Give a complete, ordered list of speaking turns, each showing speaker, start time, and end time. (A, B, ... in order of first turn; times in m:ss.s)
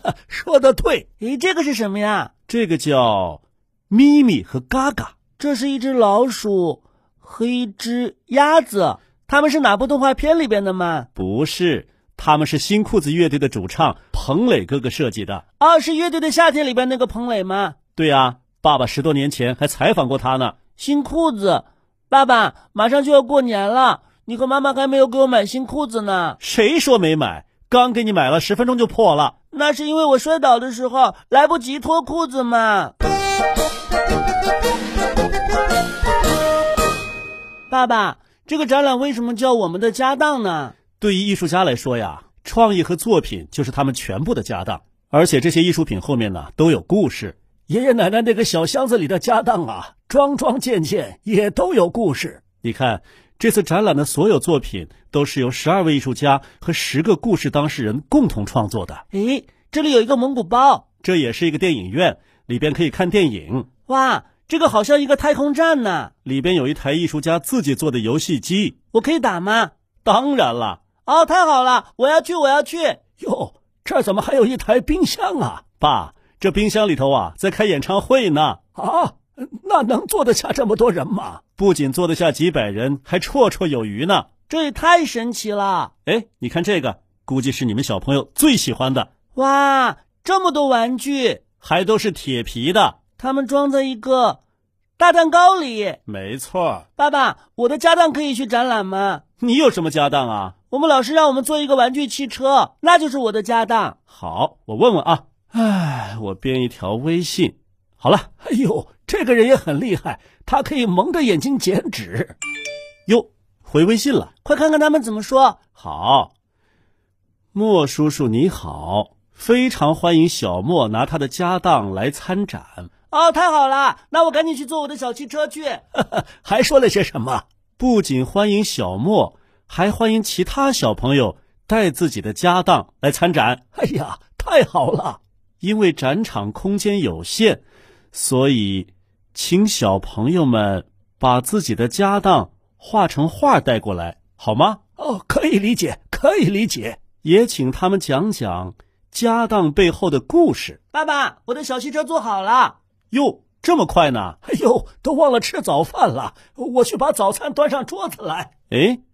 0:00.3-0:01.0 A
0:01.2-0:02.3 B
0:02.5-0:05.2 C
0:05.4-0:11.1 B
0:11.2-0:15.4 C
0:15.6-0:17.8 B
0:18.0-0:20.6 C
0:20.7-0:26.4 B
0:26.4-0:29.4 C
0:29.5-0:32.9 B
0:37.7-0:40.8 B
0:41.0-0:47.4 C
0:47.7-0:52.5 A
0:52.6-0:59.0 C
0:59.1-1:00.8 B
1:01.0-1:03.7 C
1:03.9-1:06.1 B
1:06.2-1:08.8 C
1:08.9-1:09.7 B
1:10.0-1:10.9 C
1:11.0-1:13.0 B
1:13.2-1:15.7 A
1:15.8-1:18.6 C
1:18.8-1:21.4 A
1:21.6-1:24.3 C
1:24.5-1:25.9 B
1:26.1-1:29.1 C
1:29.3-1:31.4 B
1:31.6-1:33.0 C
1:33.2-1:34.4 B
1:35.0-1:36.0 B
1:36.1-1:36.8 C
1:37.0-1:39.2 B
1:39.4-1:40.6 C
1:40.7-1:44.0 B
1:44.1-1:48.3 C
1:48.4-1:52.3 A
1:53.1-1:54.3 C
1:54.4-1:55.6 B
1:55.7-1:56.3 C
1:57.5-2:02.9 C
2:03.1-2:05.8 B
2:06.0-2:07.4 A
2:07.8-2:13.6 C
2:13.7-2:15.2 A
2:15.6-2:24.8 C
2:25.0-2:27.0 A
2:27.2-2:30.8 C
2:30.9-2:32.8 B
2:33.1-2:34.4 C
2:34.4-2:38.5 A
2:38.7-2:39.0 C